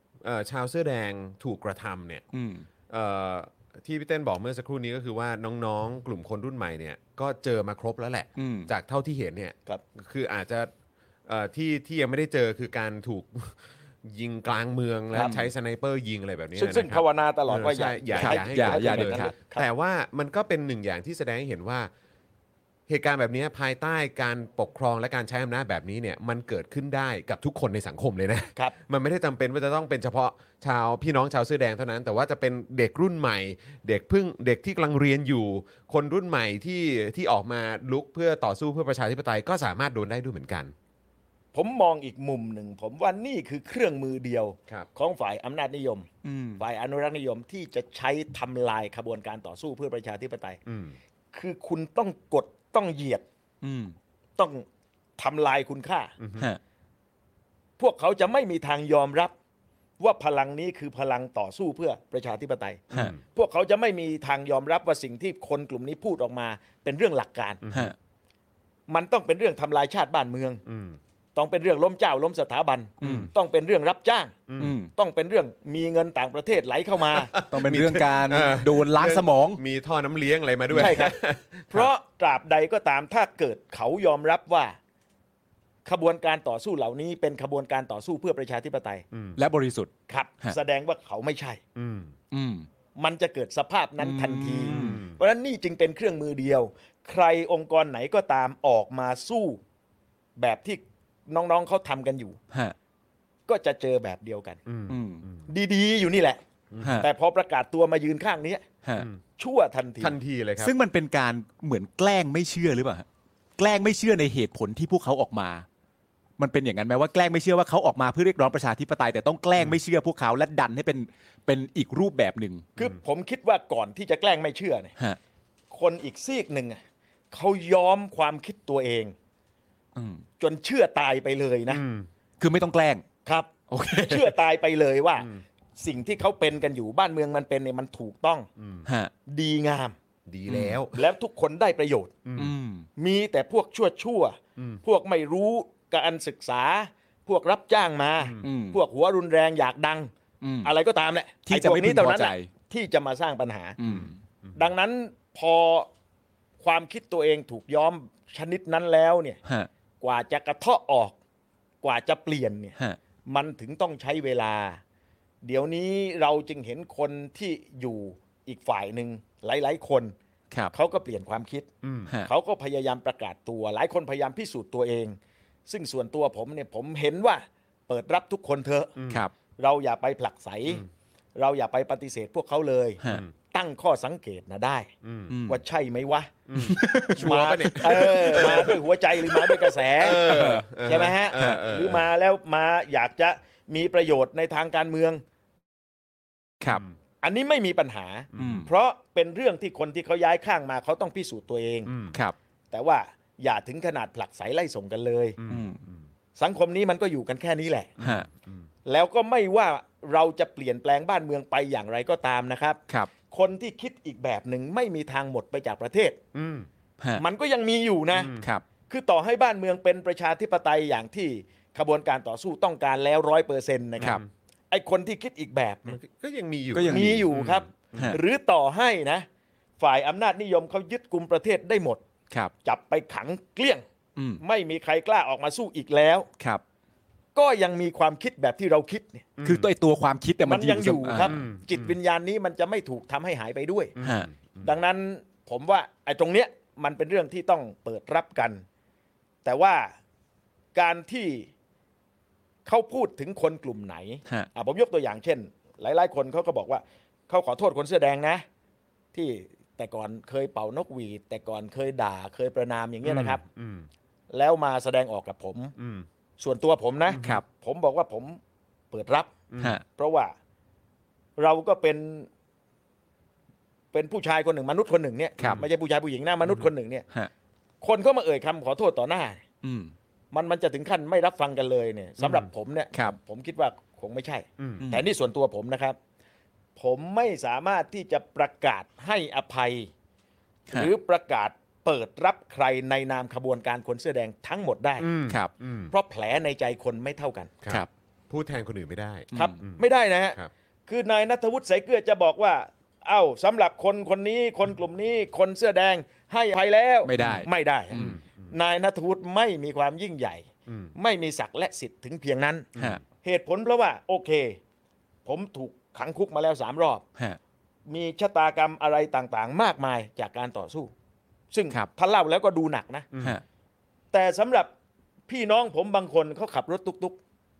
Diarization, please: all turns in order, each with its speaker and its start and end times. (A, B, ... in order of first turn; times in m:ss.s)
0:00.2-0:02.2 A
0:02.3-0:02.7 B
0:02.9-0:10.7 A
0:08.4-0:08.7 B
0:11.3-0:21.9 A
0:15.1-0:15.5 B
0:16.6-0:19.7 C
0:18.2-0:19.3 B
0:22.9-0:40.7 A
0:41.5-0:50.6 C
0:46.2-0:46.6 B
0:50.7-0:51.0 A
0:51.3-0:53.2 C
0:53.6-0:54.0 B
0:54.4-0:54.6 C
0:55.2-0:56.1 C
0:56.2-0:56.5 A
0:57.8-0:59.3 C
1:00.0-1:07.6 C
1:02.9-1:03.2 A
1:07.6-1:07.9 A
1:08.9-1:10.6 C
1:10.7-1:11.0 A
1:11.4-1:14.4 C
1:13.0-1:13.3 A
1:13.0-1:13.3 B
1:14.5-1:14.8 A
1:14.6-1:14.9 B
1:15.0-1:17.3 C
1:17.1-1:21.8 A
1:17.4-1:19.6 B
1:20.7-1:21.1 C
1:21.7-1:24.8 C
1:25.8-1:29.0 C
1:29.1-1:29.4 A
1:29.4-1:30.6 B
1:30.1-1:31.6 C
1:31.8-1:32.1 A
1:32.3-1:32.7 B
1:33.0-1:39.6 C
1:34.0-1:35.0 B
1:34.7-1:35.2 A
1:40.4-1:42.4 C
1:43.5-1:44.6 C
1:44.7-1:45.5 A
1:44.9-1:45.2 B
1:45.5-1:46.4 C
1:46.7-1:47.0 A
1:46.8-1:47.1 B
1:47.0-1:48.6 C
1:49.4-1:50.2 C
1:50.0-1:50.7 A
1:50.6-1:53.1 B
1:53.6-1:55.6 B
1:56.4-2:02.7 B
2:02.8-2:04.9 C
2:05.7-2:06.8 C
2:07.3-2:09.1 C
2:10.0-2:10.2 B
2:10.4-2:11.8 C
2:11.7-2:12.1 A
2:12.4-2:13.0 B
2:13.3-2:18.5 C
2:13.7-2:14.3 B
2:18.6-2:18.9 A
2:18.9-2:19.1 B
2:19.3-2:20.0 C
2:20.3-2:21.0 A
2:20.5-2:20.8 B
2:20.9-2:22.1 C
2:22.2-2:22.5 A
2:22.4-2:22.9 B
2:23.0-2:30.1 C
2:28.2-2:28.4 A
2:28.4-2:28.8 B
2:30.4-2:30.7 B
2:30.6-2:33.8 C
2:31.5-2:32.5 B
2:33.8-2:34.1 B
2:33.9-2:34.6 A
2:34.6-2:35.9 C
2:36.6-2:39.4 C
2:40.0-2:41.2 C
2:41.8-2:42.8 C
2:43.3-2:44.8 C
2:45.4-2:50.1 C
2:50.7-2:51.7 C
2:51.8-2:52.1 A
2:52.2-2:58.9 C
2:59.0-2:59.2 A
2:59.6-3:04.9 C
3:03.0-3:03.3 A
3:05.0-3:05.3 A
3:05.3-3:05.6 B
3:05.5-3:06.3 C
3:06.5-3:08.8 A
3:06.6-3:08.7 B
3:07.2-3:15.2 C
3:10.0-3:12.1 A
3:10.1-3:11.6 B
3:17.2-3:21.9 C
3:18.3-3:18.6 A
3:18.4-3:18.7 B
3:21.9-3:22.2 A
3:22.7-3:25.4 C
3:25.4-3:26.0 A
3:25.5-3:25.8 B
3:26.4-3:28.0 C
3:28.0-3:28.6 A
3:28.0-3:28.3 B
3:28.8-3:32.8 C
3:33.3-3:36.2 C
3:36.3-3:36.7 A
3:37.2-3:38.3 C
3:38.2-3:38.5 A
3:38.3-3:38.6 B
3:38.9-3:46.0 C
3:45.9-3:48.1 A
3:46.7-3:47.4 B
3:46.9-3:49.3 C
3:47.9-3:48.2 B
3:49.8-3:52.0 C
3:52.6-3:53.8 C
3:54.4-3:56.3 C
3:57.4-3:59.3 C
3:59.4-3:59.7 A
3:59.4-4:01.4 B
4:00.4-4:03.9 C
4:01.2-4:02.0 A
4:04.0-4:04.7 A
4:04.0-4:04.3 B
4:04.6-4:08.6 C
4:09.4-4:09.9 C
4:10.8-4:11.5 C
4:12.7-4:18.4 C
4:19.1-4:23.4 C
4:23.0-4:23.9 A
4:24.3-4:25.7 C
4:25.8-4:26.1 A
4:26.4-4:28.4 C
4:27.1-4:27.4 B
4:27.1-4:27.4 A
4:28.9-4:29.3 C
4:29.5-4:29.8 A
4:30.0-4:30.3 C
4:31.4-4:32.3 C
4:33.9-4:37.1 C
4:37.8-4:39.4 C
4:39.6-4:39.9 B
4:40.3-4:46.0 C
4:44.6-4:44.8 A
4:44.8-4:45.1 B
4:46.8-4:49.9 C
4:50.7-4:55.1 C
4:55.0-4:55.9 A
4:55.9-4:57.5 C
4:57.6-4:59.8 A
4:59.3-5:12.7 C
5:07.0-5:08.1 B
5:07.9-5:08.5 A
5:10.7-5:10.9 A
5:12.8-5:13.0 A
5:13.2-5:14.6 C
5:15.2-5:17.0 C
5:17.9-5:20.9 C
5:21.5-5:23.1 C
5:23.1-5:23.4 A
5:24.1-5:24.7 C
5:25.3-5:27.2 C